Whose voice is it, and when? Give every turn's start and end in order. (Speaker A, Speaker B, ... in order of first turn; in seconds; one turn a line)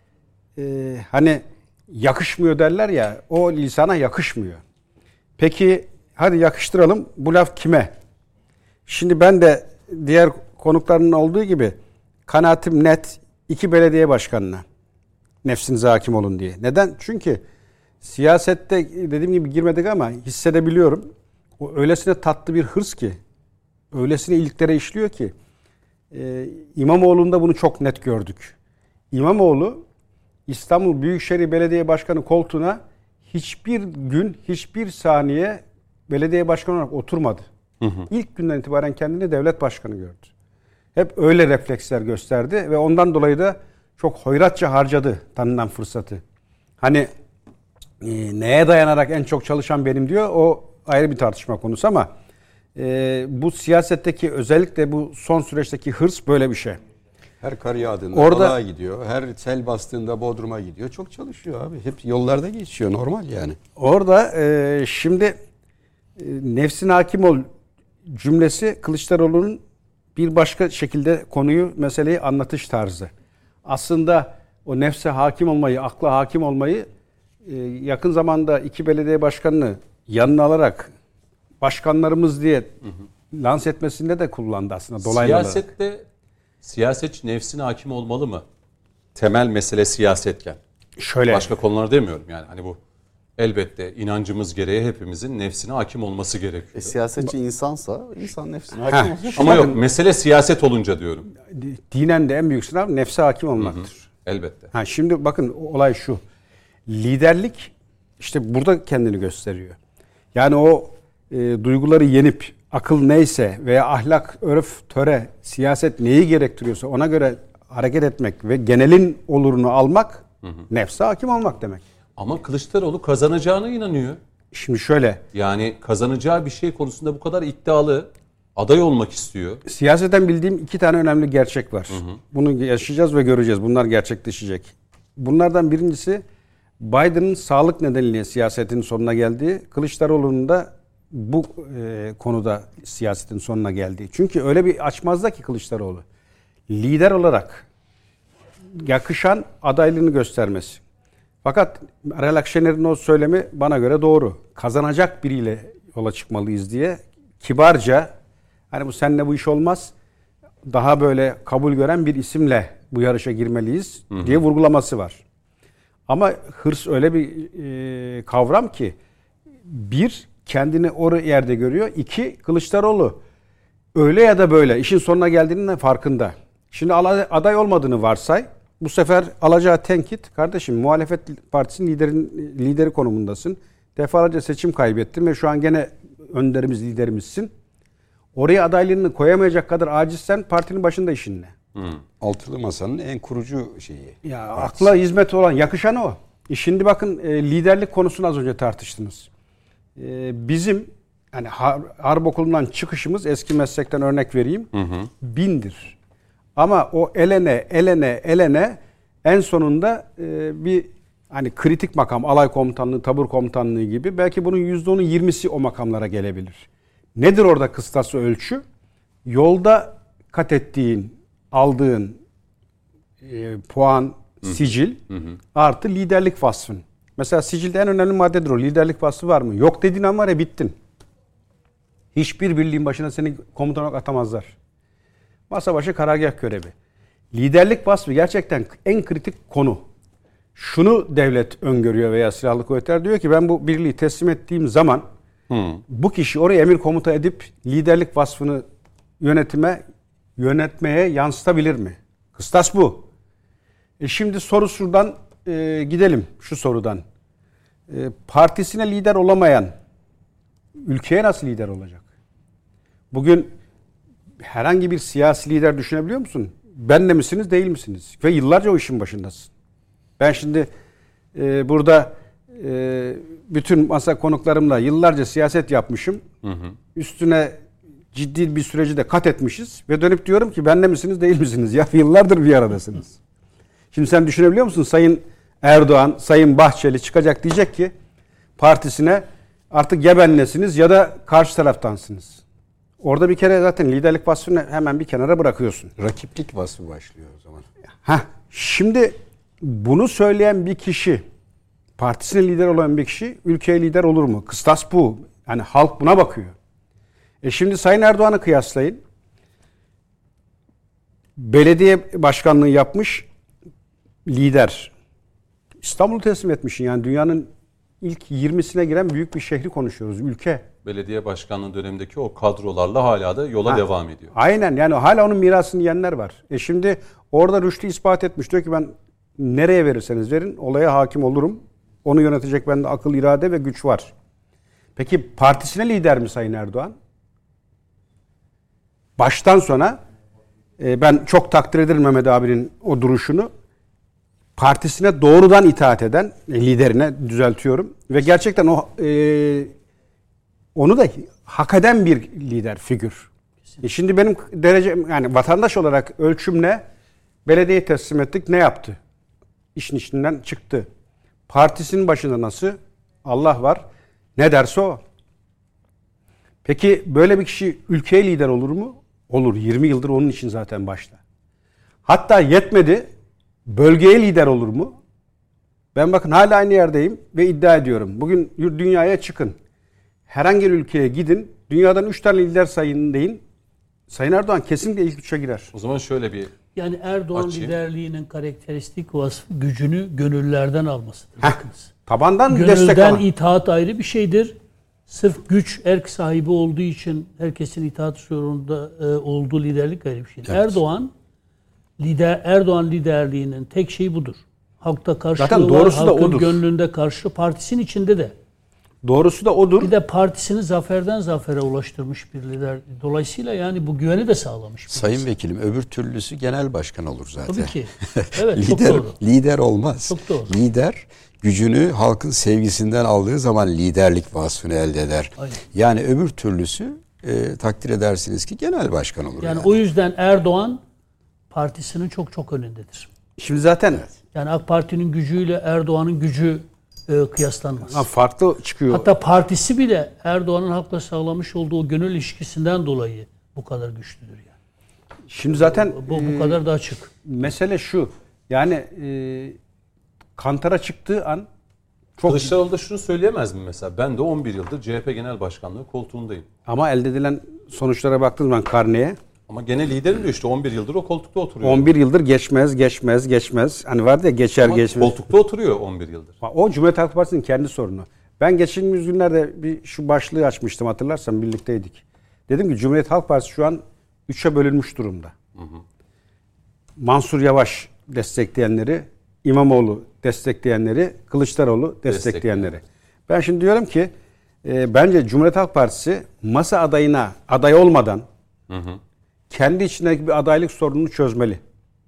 Speaker A: 0.6-4.6
Speaker A: 5.4-7.9
Speaker A: 8.8-14.6
Speaker A: 15.4-17.4
Speaker A: 18.0-21.1
Speaker A: 21.6-23.2
Speaker A: 23.9-25.3
Speaker A: 26.1-28.5
Speaker A: 29.1-29.8
Speaker A: 30.5-37.4
Speaker B: 37.8-38.1
Speaker A: 38.1-40.3
Speaker A: 40.9-46.2
Speaker A: 46.8-47.1
Speaker A: 48.0-52.1
Speaker A: 52.7-56.8
Speaker C: 57.4-63.6
Speaker A: 58.1-58.6
Speaker A: 63.8-65.3
Speaker A: 66.2-67.4
Speaker A: 68.1-69.6
Speaker A: 70.2-73.1
Speaker A: 73.6-76.9
Speaker A: 77.5-80.9
Speaker A: 81.6-82.7
Speaker A: 83.3-85.6
Speaker B: 85.0-86.0
Speaker B: 86.6-88.4
Speaker B: 89.1-90.6
Speaker A: 91.0-91.5
Speaker B: 91.3-92.8
Speaker B: 93.4-96.9
Speaker D: 96.8-99.7
Speaker A: 98.8-99.8
Speaker B: 99.3-101.3
Speaker A: 101.5-104.0
Speaker B: 103.6-104.7
Speaker A: 104.7-106.2
Speaker A: 106.9-109.8
Speaker A: 110.3-121.8
Speaker B: 122.2-124.2
Speaker A: 124.5-125.2
Speaker B: 125.3-129.6
Speaker A: 129.7-136.2
Speaker B: 131.9-132.2
Speaker A: 136.8-146.0
Speaker A: 146.7-147.6
Speaker A: 148.7-150.8
Speaker A: 151.4-158.1
Speaker A: 158.7-159.9
Speaker A: 160.6-165.2
Speaker B: 164.1-164.4
Speaker A: 166.1-168.9
Speaker A: 169.7-173.2
Speaker A: 173.9-187.5
Speaker A: 188.3-191.5
Speaker C: 192.2-194.9
Speaker A: 194.2-199.3
Speaker A: 200.0-204.7
Speaker B: 204.7-205.1
Speaker A: 205.2-205.9
Speaker A: 206.6-218.6
Speaker A: 219.2-222.2
Speaker A: 223.2-225.0
Speaker B: 225.1-225.4
Speaker A: 225.5-230.8
Speaker A: 232.1-234.5
Speaker A: 235.5-236.7
Speaker A: 237.3-239.8
Speaker A: 240.5-245.1
Speaker B: 245.5-245.8
Speaker A: 245.9-248.6
Speaker A: 249.2-249.8
Speaker A: 250.4-253.0
Speaker A: 254.0-257.0
Speaker A: 257.9-259.7
Speaker A: 260.8-262.0
Speaker A: 263.1-263.5
Speaker A: 264.4-269.5
Speaker A: 270.2-270.7
Speaker A: 271.3-276.2
Speaker B: 276.4-276.7
Speaker A: 276.9-277.6
Speaker A: 278.1-283.1
Speaker A: 283.9-287.9
Speaker A: 288.6-292.4
Speaker A: 293.0-295.9
Speaker C: 296.0-297.7
Speaker A: 298.0-301.2
Speaker A: 302.0-306.5
Speaker A: 307.4-309.0
Speaker A: 311.4-313.2
Speaker A: 314.2-314.9
Speaker A: 315.8-317.5
Speaker A: 318.0-320.6
Speaker B: 320.8-324.3
Speaker A: 323.6-334.1
Speaker A: 334.9-336.9
Speaker A: 339.2-340.0
Speaker A: 340.8-343.5
Speaker A: 344.6-349.7
Speaker A: 350.7-353.3
Speaker A: 353.8-356.8
Speaker A: 357.4-359.0
Speaker A: 359.7-360.9
Speaker A: 361.5-365.0
Speaker A: 366.6-371.2
Speaker A: 372.1-373.1
Speaker A: 373.7-374.9
Speaker A: 375.9-379.6
Speaker A: 380.3-383.4
Speaker A: 384.1-385.7
Speaker B: 385.7-386.5
Speaker E: 386.7-391.9
Speaker B: 387.3-387.7
Speaker A: 391.4-393.2
Speaker E: 392.5-394.5
Speaker E: 395.1-401.1
Speaker E: 402.0-408.3
Speaker A: 405.4-406.6
Speaker A: 409.0-409.9
Speaker E: 409.8-415.2
Speaker C: 414.9-429.7
Speaker E: 417.5-419.2
Speaker E: 420.1-420.5
Speaker E: 429.4-430.8
Speaker E: 431.5-433.1
Speaker A: 433.4-434.0
Speaker E: 434.3-438.1
Speaker A: 437.9-439.1
Speaker E: 438.9-444.5
Speaker A: 445.3-446.6
Speaker E: 445.6-447.1
Speaker A: 447.2-449.6
Speaker A: 450.4-451.5
Speaker A: 452.2-452.5
Speaker B: 452.2-456.5
Speaker A: 456.6-459.2
Speaker B: 459.5-461.9
Speaker A: 461.6-465.2
Speaker B: 464.6-466.3
Speaker A: 466.4-475.3
Speaker B: 475.6-475.8
Speaker A: 477.0-484.1
Speaker B: 482.1-482.5
Speaker A: 484.6-488.3
Speaker B: 488.7-489.0
Speaker A: 489.5-491.6